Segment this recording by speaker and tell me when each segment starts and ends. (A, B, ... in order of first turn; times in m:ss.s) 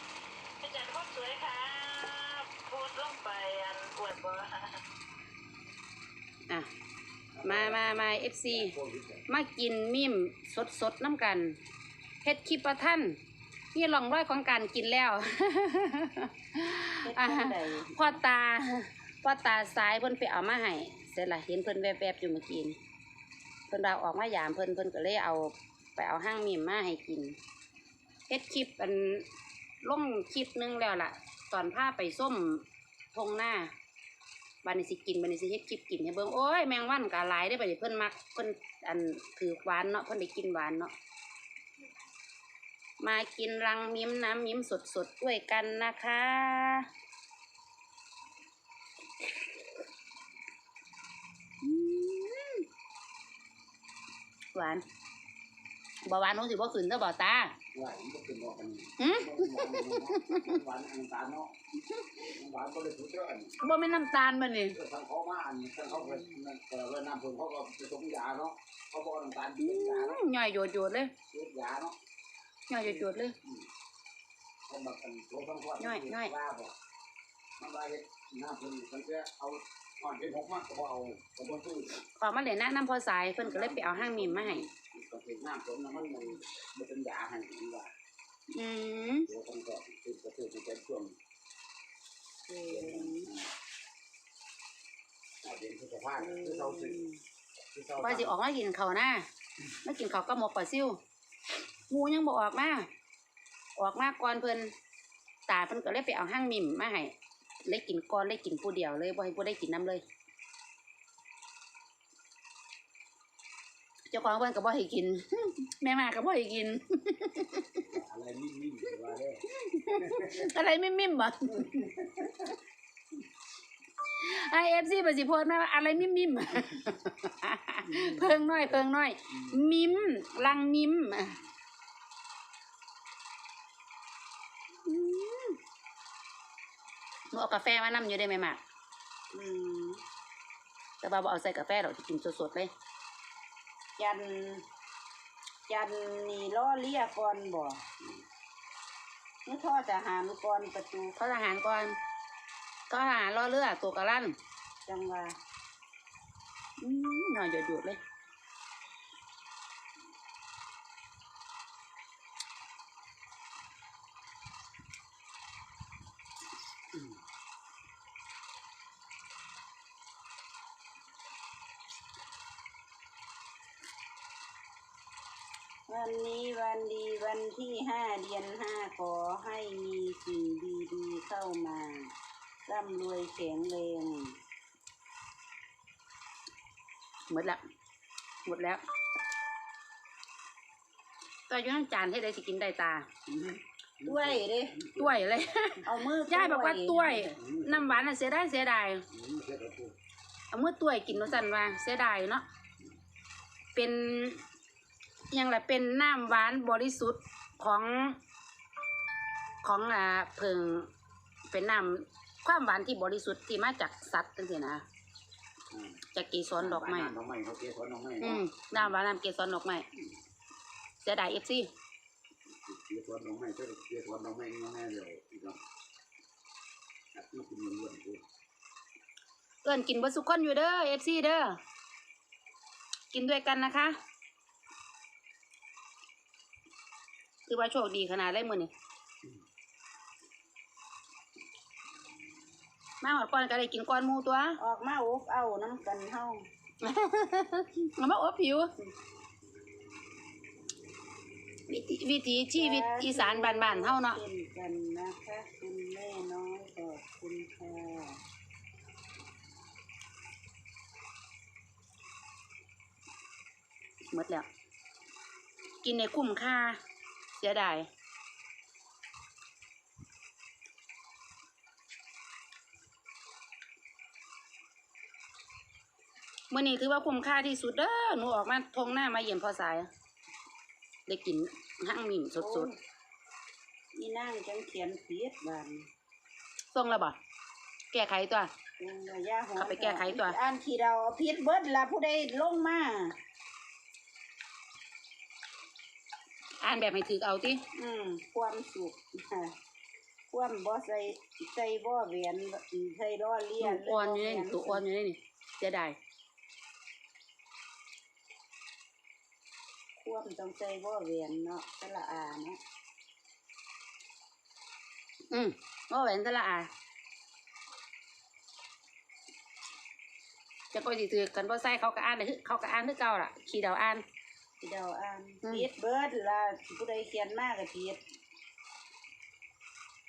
0:00.6-0:04.8 A
0:07.4-0:09.2 B
0:07.4-0:08.8 C
0:09.3-0:11.6 C
0:12.2-0:13.2 C
0:13.7-0:22.8 C
0:17.0-0:18.2 D
0:23.7-0:27.4 C
0:28.3-0:29.2 C
0:29.8-0:33.7 C
0:34.6-0:40.9 C
0:43.0-0:46.9 C
0:51.6-0:52.6 C
0:54.5-0:54.8 C
0:56.0-0:57.5 C
0:57.7-1:03.6 B
0:59.0-1:00.6 C
1:03.6-1:04.8 C
1:04.7-1:10.2 B
1:09.6-1:11.1 C
1:11.3-1:12.0 B
1:12.7-1:13.3 C
1:12.9-1:13.6 B
1:14.7-1:16.8 B
1:15.8-1:16.3 C
1:17.6-1:22.0 B
1:22.2-1:24.7 C
1:23.4-1:27.9 B
1:28.5-1:29.3 C
1:29.3-1:31.2 B
1:32.5-1:33.3 D
1:32.7-1:33.5 B
1:35.4-1:37.0 B
1:36.2-1:37.2 D
1:37.7-1:38.3 B
1:38.0-1:39.2 C
1:39.8-1:41.0 C
1:41.9-1:42.9 C
1:43.8-1:44.7 C
1:45.5-1:47.1 C
1:47.7-1:50.0 C
1:54.1-1:57.9 C
1:57.9-1:59.4 B
1:59.6-2:02.0 C
2:00.0-2:00.5 B
2:04.2-2:11.4 C
2:07.9-2:09.7 B
2:14.9-2:15.6 C
2:17.3-2:18.6 C
2:19.3-2:20.0 D
2:21.0-2:22.7 C
2:24.0-2:24.6 D
2:25.7-2:27.8 D
2:29.4-2:31.2 D
2:31.2-2:32.0 C
2:32.9-2:34.4 C
2:34.9-2:35.4 D
2:36.8-2:38.0 C
2:55.9-3:02.1 D
3:02.6-3:04.4 D
3:07.3-3:07.6 C
3:08.4-3:08.8 C
3:11.5-3:13.1 C
3:13.3-3:15.3 B
3:14.0-3:14.8 D
3:15.0-3:19.0 C
3:15.8-3:17.3 D
3:17.3-3:18.1 B
3:19.1-3:19.9 B
3:20.5-3:22.4 C
3:23.8-3:24.4 C
3:25.3-3:28.2 C
3:29.6-3:30.9 C
3:31.5-3:34.8 C
3:35.7-3:36.0 B
3:36.1-3:37.1 C
3:36.6-3:39.0 B
3:38.2-3:39.9 C
3:41.0-3:41.7 C
3:42.6-3:45.6 B
3:47.1-3:48.2 B
3:49.6-3:51.6 C
3:53.1-3:54.0 C
3:57.5-3:58.7 C
4:03.0-4:04.6 C
4:04.6-4:06.5 D
4:06.8-4:08.7 C
4:11.7-4:14.2 C
4:12.6-4:18.2 D
4:24.1-4:24.5 C
4:25.8-4:26.8 C
4:27.4-4:27.9 C
4:36.5-4:39.9 C
4:41.1-4:42.7 C
4:42.4-4:42.8 D
4:43.9-4:45.9 D
4:46.7-4:47.2 C
4:47.9-4:48.5 C
4:48.8-4:53.2 D
4:49.6-4:50.4 C
4:56.6-4:57.6 C
4:57.8-4:59.5 D
5:00.3-5:04.8 D
5:03.6-5:06.0 C
5:10.0-5:12.6 D
5:15.3-5:16.7 C
5:20.7-5:24.0 C
5:24.6-5:28.0 D